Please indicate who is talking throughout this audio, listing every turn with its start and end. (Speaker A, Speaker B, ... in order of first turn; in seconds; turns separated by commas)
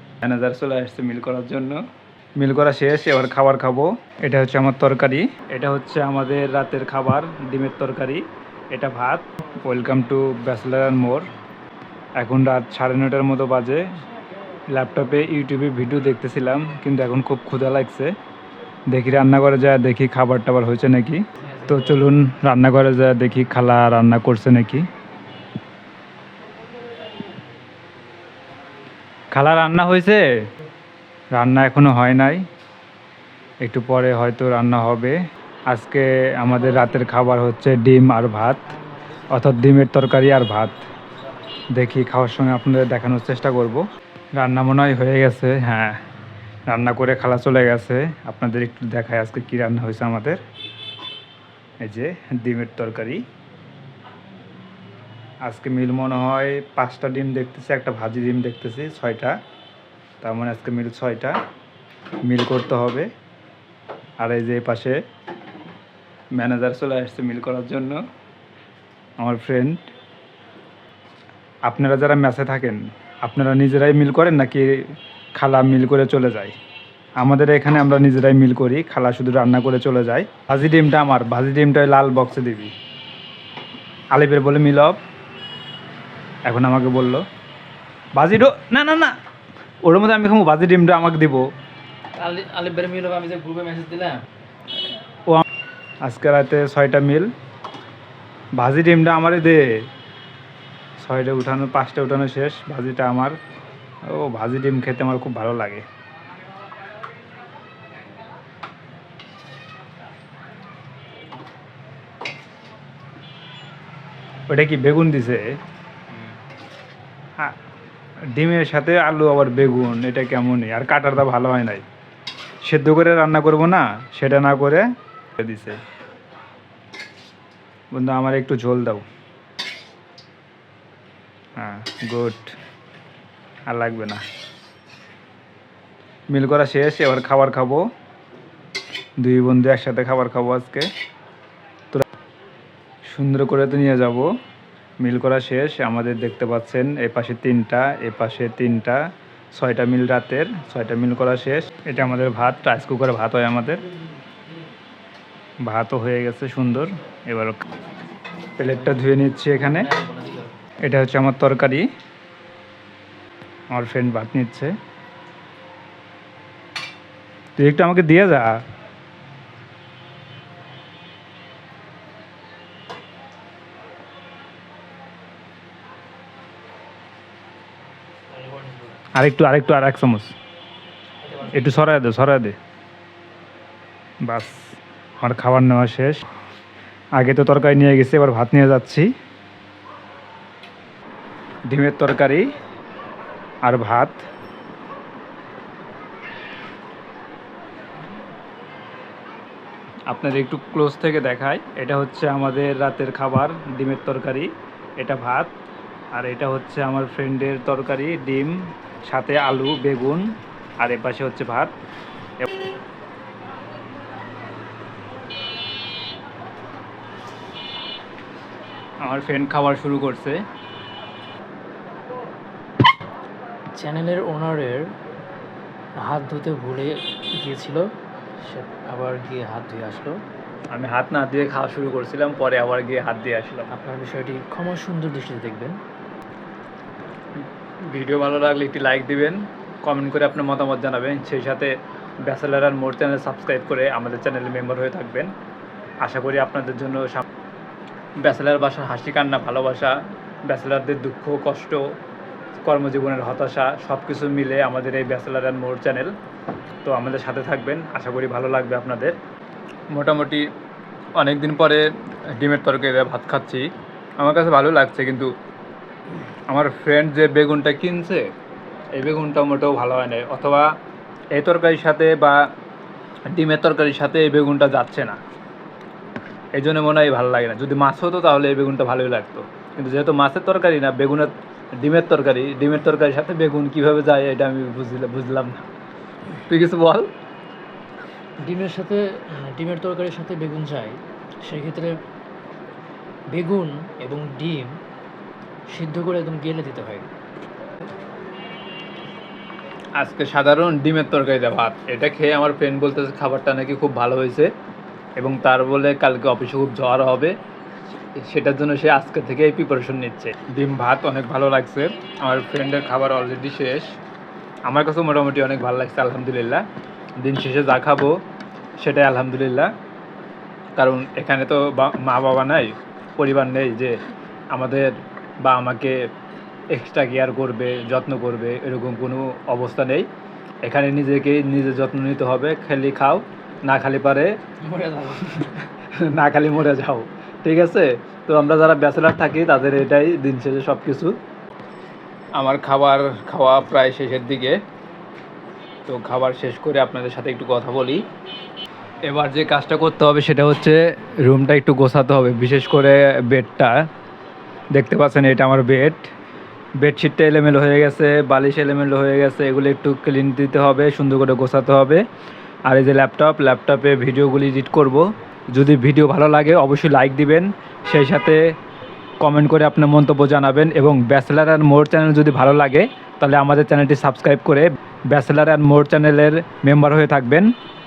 Speaker A: 0.2-1.8, Speaker A: 2.4-11.3, Speaker A: 12.2-13.8, Speaker A: 14.7-18.1, Speaker A: 18.9-24.9, Speaker A: 29.3-30.3, Speaker A: 31.4-32.4, Speaker A: 33.6-35.2, Speaker A: 35.7-38.6, Speaker A: 39.3-40.8, Speaker A: 41.7-43.9, Speaker A: 44.4-46.0, Speaker A: 46.7-50.4, Speaker A: 51.8-53.2, Speaker A: 55.5-59.4, Speaker A: 60.2-61.4, Speaker A: 62.3-63.1, Speaker A: 64.2-65.0, Speaker A: 66.4-68.0, Speaker A: 69.2-69.8, Speaker A: 71.7-76.6, Speaker A: 77.2-82.7, Speaker A: 84.1-85.0, Speaker A: 86.5-87.2, Speaker A: 88.2-89.2, Speaker A: 89.8-91.5, Speaker B: 92.2-94.2, Speaker A: 96.0-97.3, Speaker A: 98.6-99.9, Speaker A: 101.0-103.4, Speaker A: 104.0-105.8, Speaker A: 114.5-115.6, Speaker A: 118.3-121.8, Speaker A: 122.7-125.8, Speaker A: 127.9-129.1, Speaker A: 131.6-132.6, Speaker A: 133.7-134.2, Speaker A: 136.3-137.9, Speaker A: 139.2-140.9, Speaker A: 143.1-144.3, Speaker A: 145.0-153.8, Speaker A: 155.7-157.7, Speaker A: 158.6-160.0, Speaker B: 159.9-160.4, Speaker A: 160.8-161.9, Speaker A: 163.7-164.8, Speaker A: 167.6-168.6, Speaker B: 178.4-178.8, Speaker A: 179.2-180.3, Speaker A: 181.4-182.6, Speaker A: 184.2-186.2, Speaker A: 187.2-189.1, Speaker A: 191.7-192.5, Speaker A: 193.7-194.2, Speaker A: 200.1-205.5, Speaker A: 206.1-210.3, Speaker A: 210.8-211.7, Speaker A: 219.0-220.4, Speaker B: 223.8-224.9, Speaker B: 226.0-227.9, Speaker B: 228.4-230.2, Speaker A: 230.7-233.7, Speaker B: 233.7-235.8, Speaker A: 237.4-241.7, Speaker A: 242.2-245.3, Speaker A: 246.0-247.2, Speaker A: 248.2-249.9, Speaker A: 250.5-251.8, Speaker A: 252.6-256.1, Speaker A: 256.9-259.2, Speaker A: 259.9-260.4, Speaker A: 261.2-263.7, Speaker A: 264.2-265.3, Speaker A: 266.5-268.3, Speaker A: 268.9-270.7, Speaker A: 271.3-272.4, Speaker A: 273.3-275.2, Speaker A: 276.6-285.7, Speaker A: 286.3-287.1, Speaker B: 288.4-292.0, Speaker B: 293.3-294.8, Speaker B: 295.7-297.1, Speaker A: 300.0-304.5, Speaker A: 305.2-307.4, Speaker A: 308.2-313.9, Speaker A: 314.7-316.6, Speaker A: 317.2-318.1, Speaker A: 318.8-319.7, Speaker A: 320.8-323.9, Speaker A: 324.5-326.0, Speaker A: 326.7-330.1, Speaker A: 330.6-334.3, Speaker B: 334.6-335.6, Speaker A: 335.3-341.2, Speaker A: 342.4-344.6, Speaker A: 345.9-348.0, Speaker A: 349.1-353.8, Speaker A: 354.8-356.1, Speaker A: 356.8-362.0, Speaker A: 362.7-368.4, Speaker A: 369.2-377.5